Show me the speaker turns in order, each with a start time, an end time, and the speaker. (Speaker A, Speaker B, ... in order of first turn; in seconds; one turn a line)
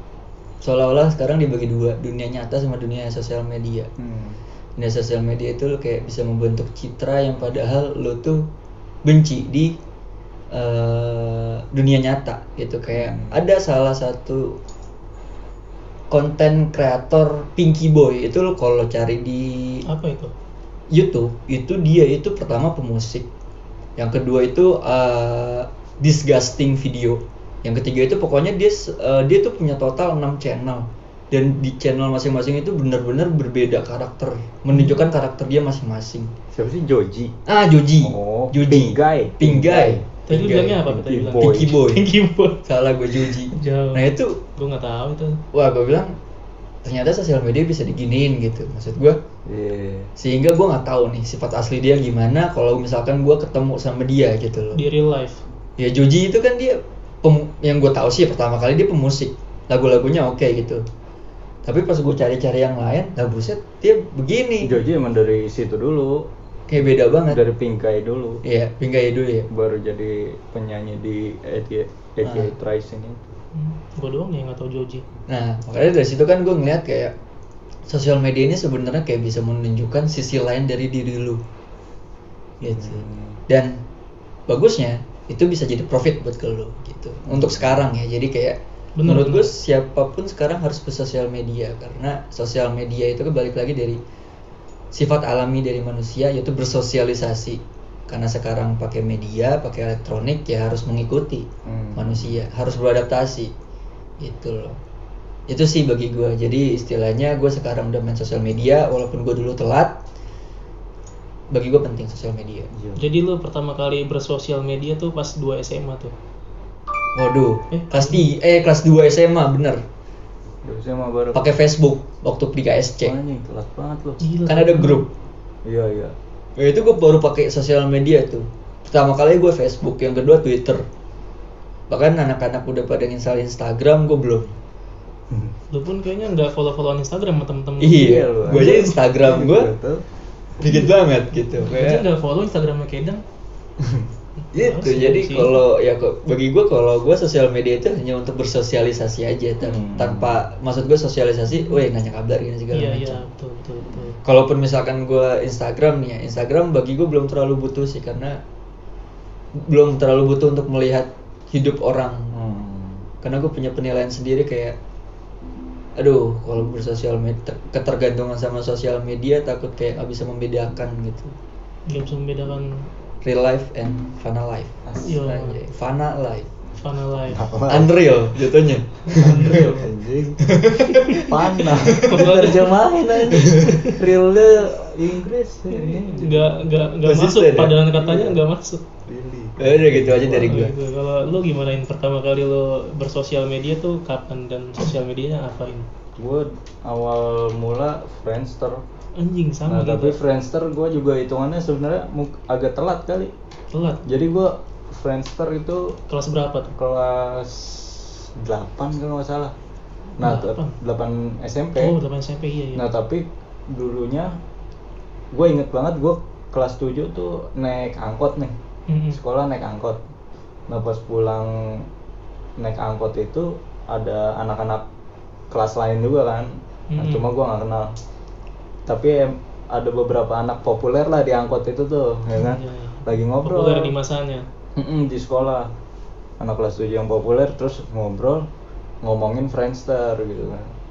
Speaker A: 0.6-3.9
Speaker B: 4.0-4.4
Speaker A: 4.8-8.5
Speaker A: 9.0-9.7
Speaker A: 10.5-14.6
Speaker B: 12.9-13.4
Speaker A: 16.1-19.8
Speaker C: 19.9-20.3
Speaker A: 20.9-23.3
Speaker A: 24.0-36.3
Speaker B: 36.5-37.3
Speaker A: 37.5-40.8
Speaker B: 38.0-41.7
Speaker C: 40.3-42.6
Speaker A: 41.4-42.0
Speaker A: 42.6-44.4
Speaker C: 43.2-45.4
Speaker A: 45.5-46.1
Speaker A: 46.8-49.2
Speaker B: 49.5-50.1
Speaker A: 50.2-54.8
Speaker C: 54.7-55.4
Speaker A: 55.8-60.8
Speaker A: 61.6-64.8
Speaker B: 64.6-66.3
Speaker A: 66.7-67.4
Speaker B: 67.3-68.4
Speaker A: 68.4-69.5
Speaker B: 69.5-73.2
Speaker A: 72.2-72.5
Speaker C: 73.5-75.0
Speaker A: 75.3-77.1
Speaker A: 77.9-81.4
Speaker A: 82.6-83.8
Speaker B: 82.6-83.4
Speaker A: 84.5-94.0
Speaker B: 87.2-87.8
Speaker C: 89.0-89.5
Speaker A: 94.9-103.5
Speaker B: 101.7-102.3
Speaker A: 104.2-104.8
Speaker A: 105.5-110.0
Speaker A: 111.5-112.7
Speaker B: 112.7-113.0
Speaker C: 113.0-116.1
Speaker A: 117.1-119.8
Speaker C: 117.7-118.2
Speaker B: 120.6-121.4
Speaker A: 121.3-123.2
Speaker B: 123.0-124.2
Speaker C: 124.2-125.0
Speaker A: 124.5-125.1
Speaker B: 125.6-126.1
Speaker A: 126.6-130.8
Speaker A: 131.9-134.5
Speaker C: 135.7-138.9
Speaker A: 137.8-139.7
Speaker B: 137.9-140.0
Speaker A: 140.6-142.0
Speaker C: 141.6-143.2
Speaker B: 143.8-144.1
Speaker C: 144.5-145.5
Speaker A: 144.5-153.2
Speaker B: 149.6-150.4
Speaker C: 152.7-154.2
Speaker A: 154.2-158.4
Speaker A: 159.6-162.3
Speaker B: 162.3-163.1
Speaker A: 163.2-164.8
Speaker A: 165.9-171.3
Speaker C: 171.9-172.8
Speaker A: 173.2-176.5
Speaker B: 174.8-175.2
Speaker C: 175.0-175.6
Speaker C: 176.8-177.4
Speaker B: 177.3-177.9
Speaker A: 177.7-179.6
Speaker C: 179.0-179.9
Speaker B: 179.1-186.6
Speaker A: 180.4-182.3
Speaker C: 180.9-184.0
Speaker A: 183.4-183.7
Speaker C: 185.7-188.8
Speaker A: 187.1-187.9
Speaker B: 188.0-188.3
Speaker B: 189.1-190.7
Speaker A: 189.6-190.7
Speaker C: 190.4-195.9
Speaker B: 196.2-198.8
Speaker C: 199.2-200.2
Speaker B: 199.7-203.3
Speaker C: 203.7-204.0
Speaker B: 204.1-206.0
Speaker C: 206.1-206.7
Speaker B: 206.8-209.5
Speaker C: 210.2-210.7
Speaker B: 210.2-211.9
Speaker C: 211.8-212.8
Speaker B: 212.8-214.3
Speaker B: 215.3-218.5
Speaker C: 218.9-219.2
Speaker B: 219.1-220.0
Speaker B: 220.7-221.8
Speaker B: 222.6-224.8
Speaker B: 225.5-227.9
Speaker C: 226.9-227.3
Speaker B: 228.9-233.9
Speaker C: 232.3-234.5
Speaker B: 234.8-235.7
Speaker B: 236.4-238.5
Speaker B: 239.0-240.7